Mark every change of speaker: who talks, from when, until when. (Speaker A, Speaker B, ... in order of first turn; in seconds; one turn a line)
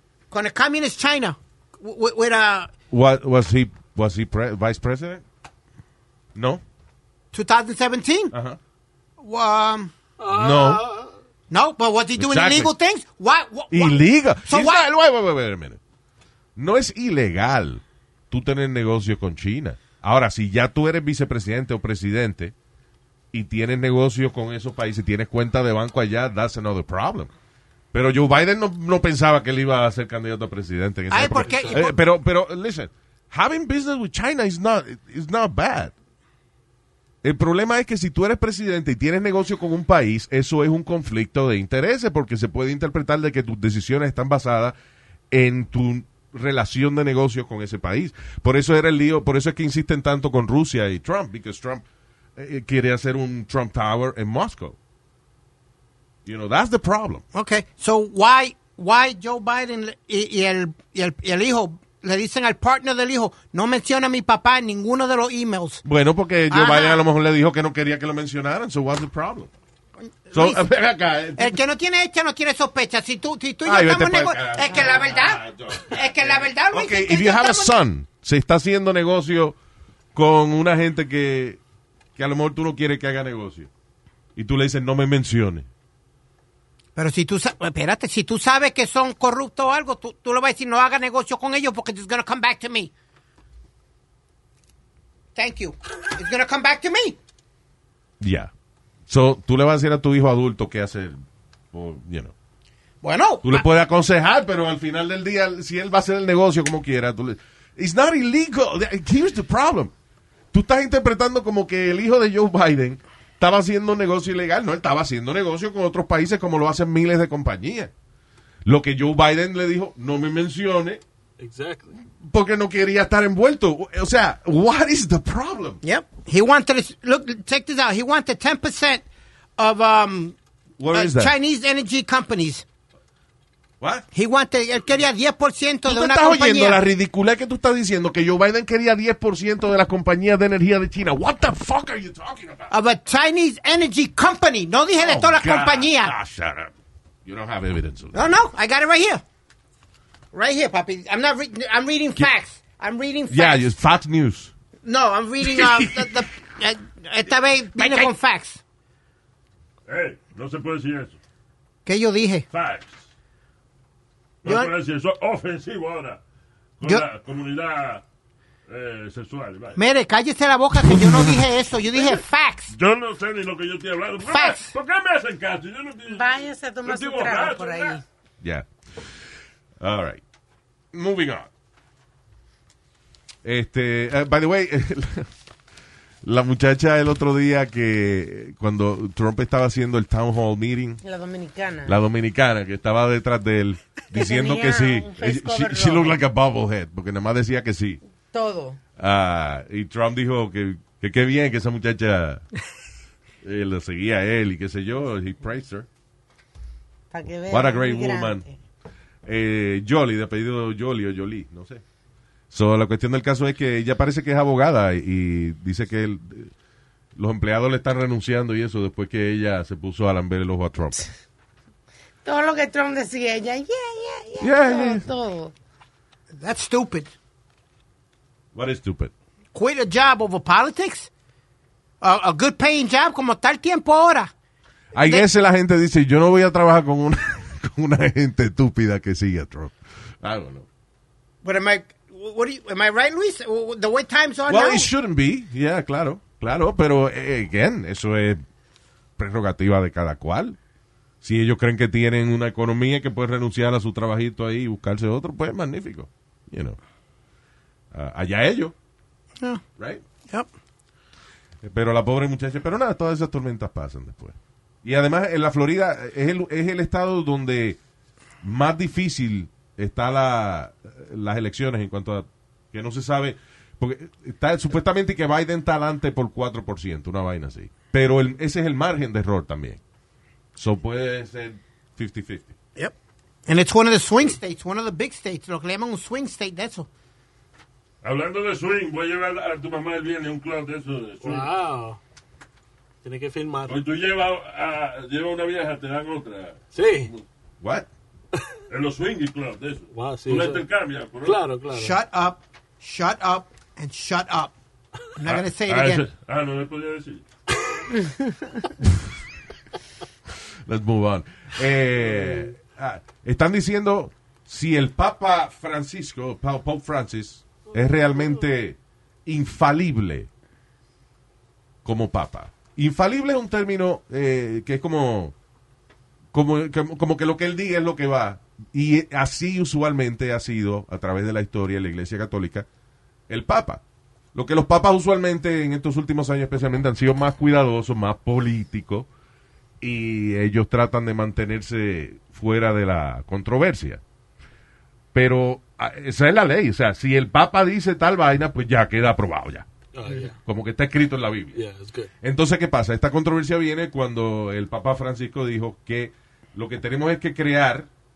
Speaker A: 0.3-2.7
Speaker B: 2.9-5.2
Speaker B: 6.3-6.6
Speaker A: 7.3-8.3
Speaker B: 8.3-8.6
Speaker A: 9.2-9.9
Speaker C: 10.2-11.1
Speaker B: 10.3-10.8
Speaker A: 11.5-14.8
Speaker B: 12.2-12.7
Speaker B: 13.7-15.8
Speaker B: 16.6-22.5
Speaker B: 23.3-27.3
Speaker B: 27.9-35.9
Speaker A: 31.1-31.9
Speaker C: 31.4-31.9
Speaker B: 37.2-44.7
Speaker B: 45.3-51.8
Speaker B: 52.4-54.8
Speaker B: 56.2-57.2
Speaker A: 57.3-65.8
Speaker B: 65.8-69.5
Speaker A: 66.5-67.0
Speaker A: 70.0-70.6
Speaker B: 70.3-71.6
Speaker A: 71.4-77.7
Speaker B: 73.6-79.5
Speaker B: 80.1-81.6
Speaker B: 82.2-83.7
Speaker B: 84.3-85.7
Speaker A: 87.0-92.9
Speaker A: 95.3-97.2
Speaker B: 98.2-98.5
Speaker B: 99.1-101.2
Speaker B: 101.7-102.3
Speaker A: 103.0-103.6
Speaker B: 103.4-109.9
Speaker B: 110.5-117.9
Speaker B: 118.7-121.0
Speaker C: 121.4-122.0
Speaker B: 122.2-125.8
Speaker A: 125.8-129.0
Speaker A: 129.6-130.3
Speaker B: 130.8-131.3
Speaker A: 130.9-132.6
Speaker B: 133.8-134.1
Speaker A: 134.1-136.8
Speaker B: 135.8-142.7
Speaker A: 142.7-146.1
Speaker B: 145.0-146.7
Speaker B: 147.2-148.3
Speaker A: 148.1-149.2
Speaker A: 150.3-153.7
Speaker B: 153.3-154.5
Speaker A: 154.8-158.6
Speaker B: 155.4-156.1
Speaker B: 157.7-158.1
Speaker D: 159.9-161.2
Speaker A: 161.8-162.5
Speaker D: 162.5-163.0
Speaker D: 164.4-166.2
Speaker A: 164.4-164.7
Speaker D: 166.8-168.0
Speaker D: 168.7-169.8
Speaker A: 169.8-172.7
Speaker D: 172.0-178.0
Speaker A: 174.3-174.7
Speaker E: 176.1-178.0
Speaker B: 178.4-179.2
Speaker B: 179.8-180.2
Speaker B: 180.9-181.5
Speaker B: 183.4-185.3
Speaker B: 186.2-191.0
Speaker E: 191.0-192.0
Speaker B: 191.8-198.0
Speaker E: 194.1-196.2
Speaker E: 198.3-198.8
Speaker B: 199.0-202.4
Speaker B: 203.4-205.9
Speaker E: 207.1-208.5
Speaker B: 207.5-208.4
Speaker B: 209.2-211.8
Speaker B: 212.5-216.5
Speaker B: 217.2-221.0
Speaker E: 222.2-225.5
Speaker B: 224.4-225.0
Speaker A: 226.4-227.1
Speaker B: 228.5-229.1
Speaker A: 229.5-231.1
Speaker A: 232.0-234.3
Speaker B: 234.9-240.7
Speaker A: 235.0-235.2
Speaker A: 241.4-244.9
Speaker B: 244.5-248.4
Speaker B: 249.2-250.6
Speaker B: 251.2-256.8
Speaker B: 257.9-258.7
Speaker B: 259.8-260.0
Speaker B: 261.6-267.8
Speaker B: 268.4-279.8
Speaker B: 280.6-282.5
Speaker A: 283.5-286.9
Speaker D: 288.0-291.5
Speaker C: 291.2-292.0
Speaker C: 293.0-293.8
Speaker D: 293.7-296.6
Speaker C: 296.7-297.1
Speaker B: 297.6-297.9
Speaker D: 298.7-301.4
Speaker C: 299.9-300.6
Speaker C: 301.2-302.0
Speaker A: 301.7-304.5
Speaker A: 305.1-306.0
Speaker D: 305.3-307.2
Speaker B: 310.6-320.3
Speaker B: 321.8-325.3
Speaker B: 326.3-332.6
Speaker B: 333.3-333.8
Speaker B: 334.3-339.1
Speaker B: 339.8-344.0
Speaker B: 345.1-349.7
Speaker C: 349.9-350.4
Speaker B: 350.4-351.6
Speaker C: 351.5-352.1
Speaker B: 352.2-357.9